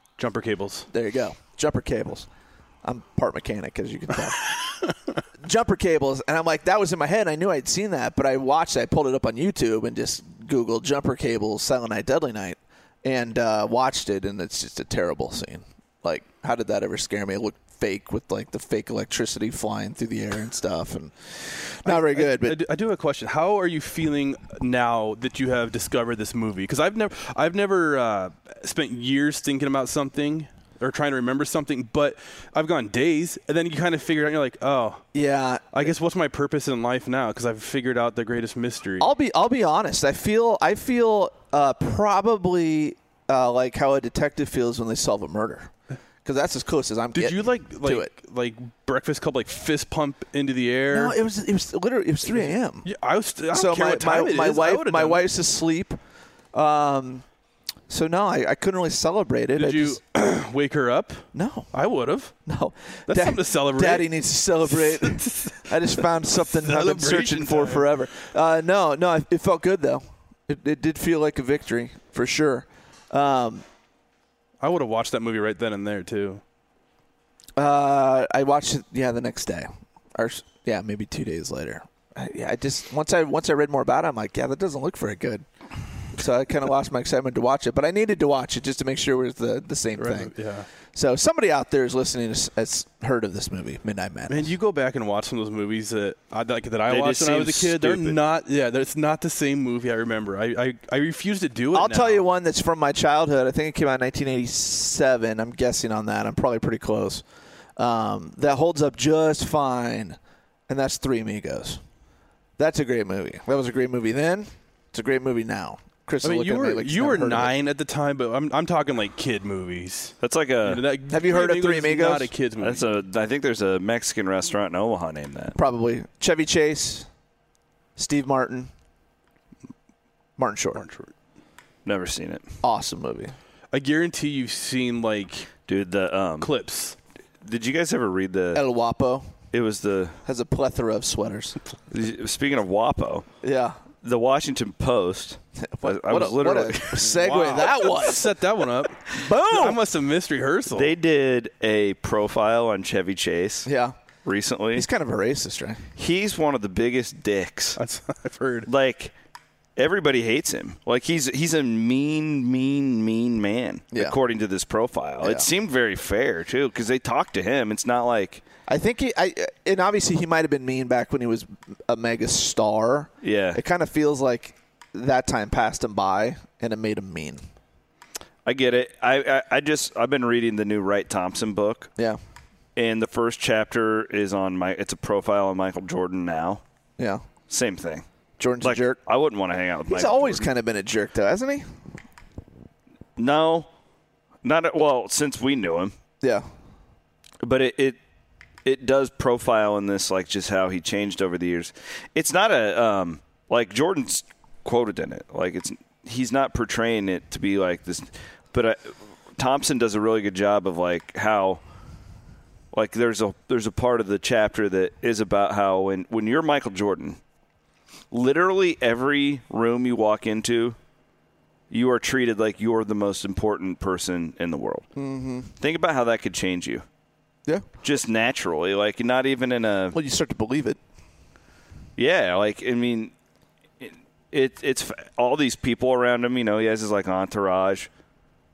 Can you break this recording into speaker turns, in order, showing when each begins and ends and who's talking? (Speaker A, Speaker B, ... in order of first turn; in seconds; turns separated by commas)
Speaker A: 0.2-0.9, Speaker B: 0.9-2.3, Speaker B: 2.8-4.5, Speaker B: 5.4-22.6, Speaker A: 21.8-35.0, Speaker B: 35.1-35.9, Speaker A: 35.7-39.1, Speaker B: 39.0-45.7, Speaker B: 46.2-48.1, Speaker A: 47.1-51.2, Speaker B: 50.9-52.9, Speaker A: 52.3-55.3, Speaker B: 53.5-56.0, Speaker B: 56.5-57.2, Speaker B: 57.9-60.0, Speaker A: 59.5-62.3, Speaker B: 61.3-61.7, Speaker B: 62.5-73.6, Speaker A: 63.1-65.8, Speaker A: 66.4-67.9, Speaker A: 74.6-76.4, Speaker B: 77.6-85.4, Speaker B: 86.1-90.3, Speaker A: 90.0-90.7, Speaker B: 90.9-94.5, Speaker A: 94.3-102.2, Speaker C: 96.9-98.2, Speaker B: 101.7-107.2, Speaker B: 107.8-111.8, Speaker B: 112.6-117.5, Speaker A: 116.2-122.8, Speaker C: 120.2-120.8, Speaker B: 121.1-122.3, Speaker C: 122.6-125.5, Speaker B: 125.5-127.1, Speaker B: 128.0-128.7, Speaker B: 130.4-130.8, Speaker A: 130.7-131.1, Speaker C: 131.8-132.4, Speaker B: 132.6-133.3, Speaker A: 133.7-135.5, Speaker C: 135.7-136.5, Speaker A: 136.4-137.0, Speaker C: 137.4-138.6, Speaker B: 138.5-139.3, Speaker C: 139.5-140.2, Speaker B: 140.2-141.6, Speaker C: 141.9-143.2, Speaker B: 143.4-143.8, Speaker C: 144.0-147.0, Speaker B: 145.6-148.3, Speaker A: 147.0-150.9, Speaker B: 149.1-149.8, Speaker C: 150.7-153.7, Speaker B: 153.7-153.9, Speaker C: 154.2-154.8, Speaker B: 154.7-155.8, Speaker C: 156.0-157.8, Speaker A: 157.8-158.7, Speaker C: 158.7-159.1, Speaker C: 159.8-168.4, Speaker B: 163.9-164.2, Speaker B: 165.2-165.5, Speaker B: 168.7-177.4, Speaker C: 173.2-173.6, Speaker C: 178.4-181.9, Speaker C: 182.8-186.6, Speaker B: 187.0-187.2, Speaker C: 187.5-188.0, Speaker B: 188.4-189.0, Speaker C: 188.6-190.5, Speaker B: 189.9-191.7, Speaker C: 193.2-193.7, Speaker C: 194.4-195.9, Speaker C: 197.4-198.0, Speaker C: 198.6-211.6, Speaker C: 212.7-217.2, Speaker C: 218.1-220.8, Speaker C: 221.7-224.8, Speaker B: 224.9-225.5, Speaker C: 225.6-226.8, Speaker C: 227.8-230.0, Speaker B: 229.9-230.8, Speaker C: 232.0-233.1, Speaker C: 233.8-237.9